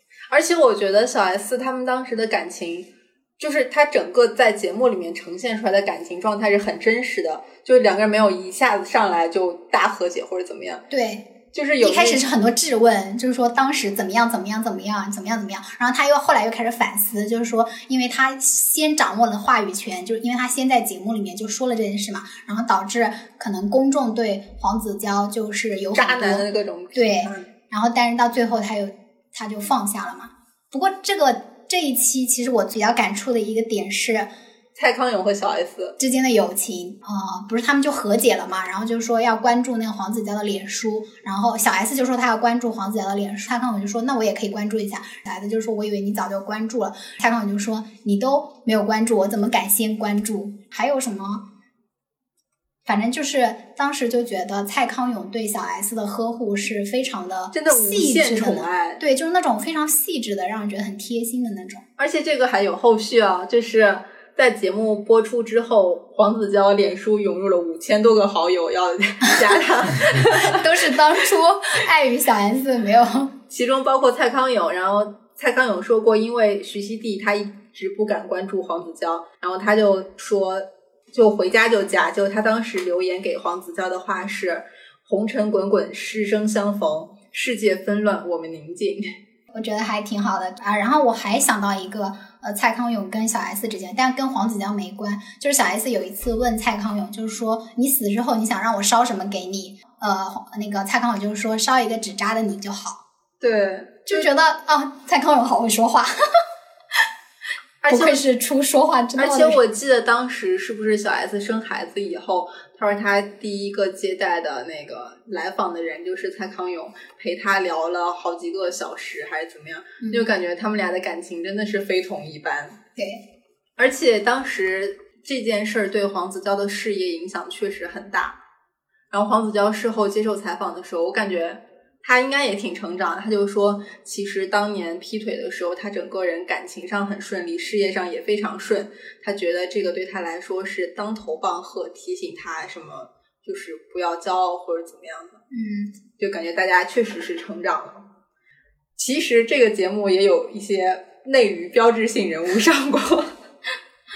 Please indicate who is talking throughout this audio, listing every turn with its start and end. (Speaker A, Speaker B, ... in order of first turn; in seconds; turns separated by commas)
Speaker A: 0.3-10.8, Speaker B: 10.9-34.3, Speaker A: 11.5-12.3, Speaker A: 25.9-27.5, Speaker A: 34.8-36.0, Speaker B: 36.0-51.5, Speaker B: 52.9-61.8, Speaker A: 57.5-59.0, Speaker A: 62.0-70.6, Speaker B: 70.2-73.3, Speaker A: 73.5-89.1, Speaker B: 89.5-103.0, Speaker A: 103.4-104.3, Speaker B: 104.1-106.1, Speaker A: 107.8-108.2, Speaker B: 107.9-109.6, Speaker A: 109.2-122.8, Speaker B: 120.0-120.3, Speaker B: 123.0-123.2, Speaker A: 123.8-128.4, Speaker A: 129.1-145.4, Speaker B: 145.5-145.9, Speaker A: 146.2-148.1, Speaker A: 149.0-153.3